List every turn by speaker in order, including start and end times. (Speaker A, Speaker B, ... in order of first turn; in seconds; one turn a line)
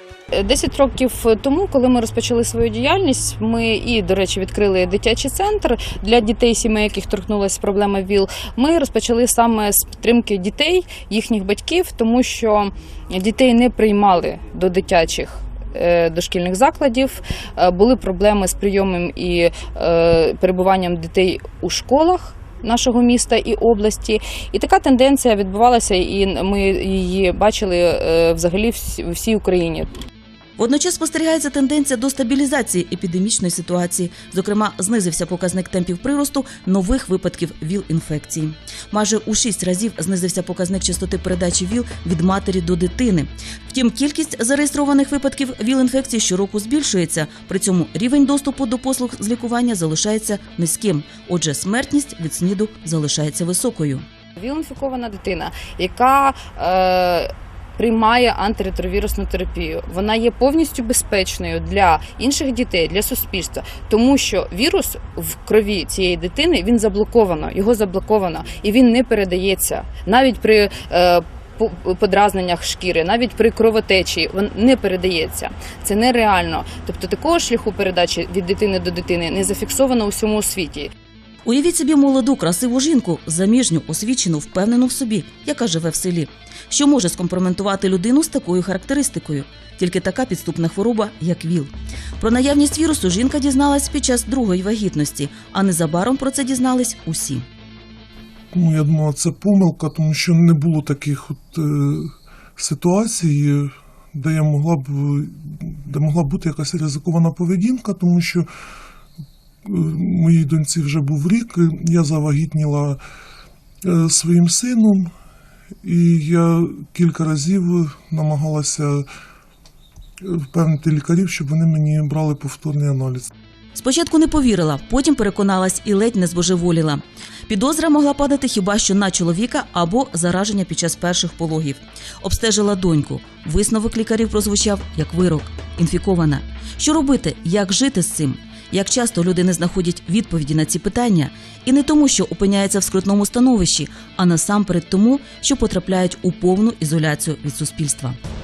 Speaker A: 0.3-30.0
Speaker B: 30.6-54.0
Speaker A: 54.4-80.9
Speaker B: 81.4-97.4
Speaker C: 98.5-108.5
Speaker C: 109.6-113.0
Speaker C: 113.8-115.1
Speaker C: 115.8-119.0
Speaker C: 120.2-123.3
Speaker B: 123.7-148.2